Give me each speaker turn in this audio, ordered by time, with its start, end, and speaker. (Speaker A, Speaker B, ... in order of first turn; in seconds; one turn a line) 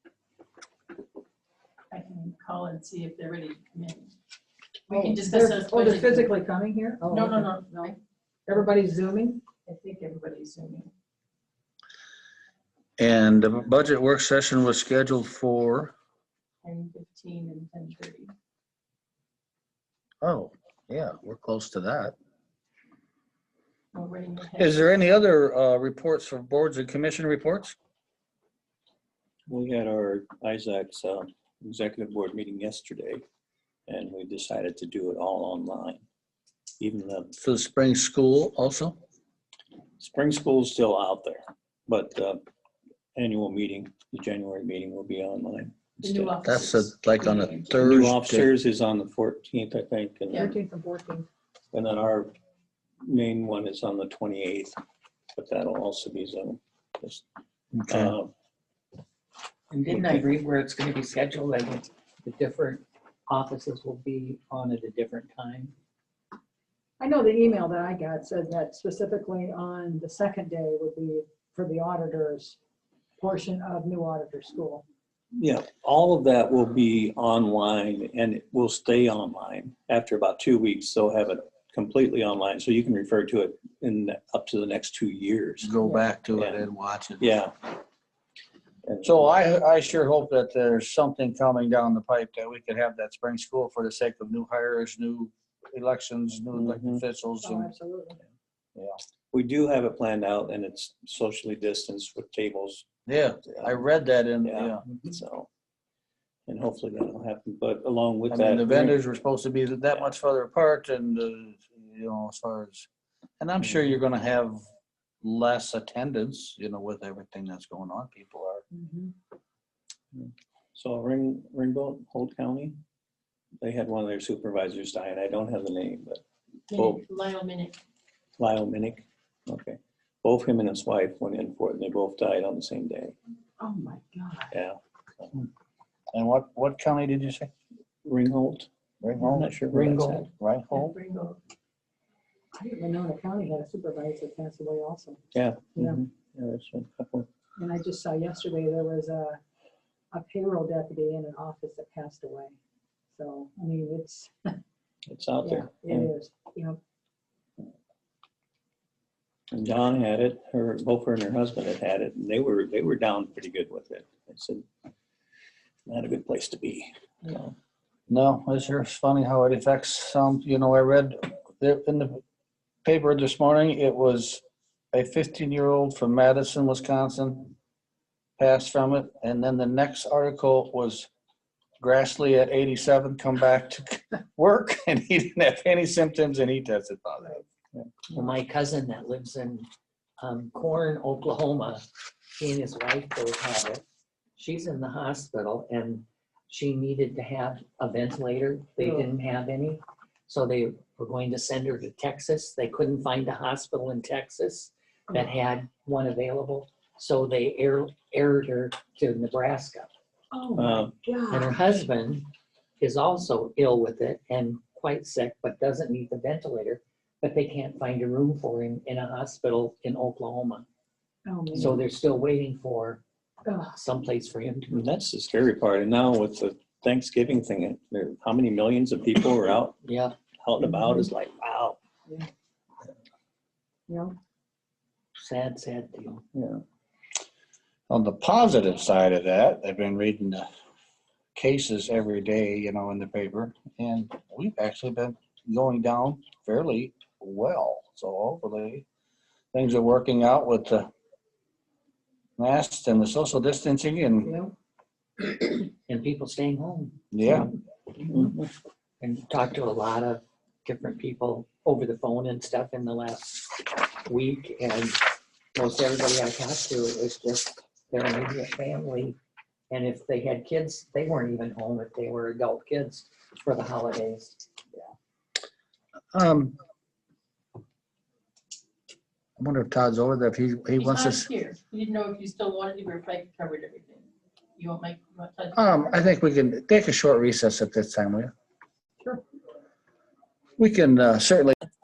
Speaker A: 1.9-4.1
Speaker A: 4.9-6.4
Speaker B: 4.9-7.9
Speaker A: 7.0-8.0
Speaker B: 8.5-9.4
Speaker A: 9.7-10.9
Speaker C: 13.0-15.9
Speaker A: 16.6-18.3
Speaker C: 20.2-22.1
Speaker A: 23.9-24.9
Speaker C: 24.6-27.8
Speaker D: 29.5-33.2
Speaker D: 33.9-36.0
Speaker D: 36.8-37.3
Speaker C: 37.4-39.0
Speaker D: 40.0-42.4
Speaker D: 43.2-46.4
Speaker A: 46.0-47.8
Speaker C: 46.4-48.5
Speaker D: 47.8-50.5
Speaker A: 50.3-50.6
Speaker B: 50.3-51.3
Speaker D: 51.7-52.3
Speaker D: 53.0-54.8
Speaker D: 55.4-57.2
Speaker C: 57.7-58.1
Speaker D: 57.9-58.3
Speaker E: 59.7-65.7
Speaker D: 59.9-60.2
Speaker B: 67.0-72.6
Speaker B: 73.2-74.8
Speaker D: 75.3-85.7
Speaker C: 85.6-87.4
Speaker D: 86.3-86.7
Speaker D: 87.2-87.5
Speaker D: 88.8-89.3
Speaker C: 89.0-97.7
Speaker D: 96.5-97.0
Speaker B: 97.4-98.2
Speaker D: 99.3-102.9
Speaker C: 103.1-104.9
Speaker D: 103.4-103.8
Speaker D: 104.4-105.5
Speaker D: 106.5-109.0
Speaker C: 108.3-112.9
Speaker C: 113.4-114.6
Speaker C: 115.2-118.6
Speaker B: 118.7-119.1
Speaker D: 120.1-122.8
Speaker D: 123.6-127.0
Speaker A: 126.7-127.8
Speaker D: 128.4-133.2
Speaker B: 133.6-134.5
Speaker D: 134.5-135.3
Speaker C: 136.1-137.5
Speaker D: 138.0-138.7
Speaker C: 139.0-139.6
Speaker D: 139.2-140.3
Speaker E: 139.7-140.3
Speaker C: 140.4-140.9
Speaker A: 140.7-141.4
Speaker B: 142.6-145.2
Speaker D: 145.3-147.3
Speaker B: 147.6-149.4
Speaker B: 150.1-152.6
Speaker B: 153.1-154.3
Speaker D: 155.1-156.1
Speaker B: 155.4-156.8
Speaker D: 159.5-164.7
Speaker D: 165.9-167.6
Speaker C: 168.1-172.2
Speaker C: 172.8-174.4
Speaker C: 174.9-177.5
Speaker C: 178.4-181.1
Speaker C: 181.8-187.4
Speaker E: 188.1-189.7
Speaker E: 190.2-191.8
Speaker E: 192.4-193.8
Speaker E: 194.4-209.9
Speaker B: 210.3-211.6
Speaker D: 210.6-210.9
Speaker E: 211.3-212.3
Speaker E: 212.8-220.7
Speaker B: 221.3-221.8
Speaker E: 221.5-223.0
Speaker E: 223.5-224.9
Speaker D: 224.7-229.8
Speaker E: 229.8-230.2
Speaker D: 230.4-231.8
Speaker B: 230.6-231.0
Speaker B: 233.9-234.2
Speaker E: 235.2-236.2
Speaker D: 236.3-236.6
Speaker C: 237.9-240.5
Speaker C: 241.3-248.8
Speaker C: 249.5-250.9
Speaker C: 252.4-254.3
Speaker B: 254.2-254.5
Speaker E: 255.9-257.0
Speaker C: 257.1-257.5
Speaker D: 258.1-258.4
Speaker E: 259.0-269.2
Speaker E: 269.7-274.4
Speaker C: 276.1-276.6
Speaker C: 279.4-281.3
Speaker A: 280.8-286.0
Speaker C: 285.6-288.3
Speaker C: 290.6-291.6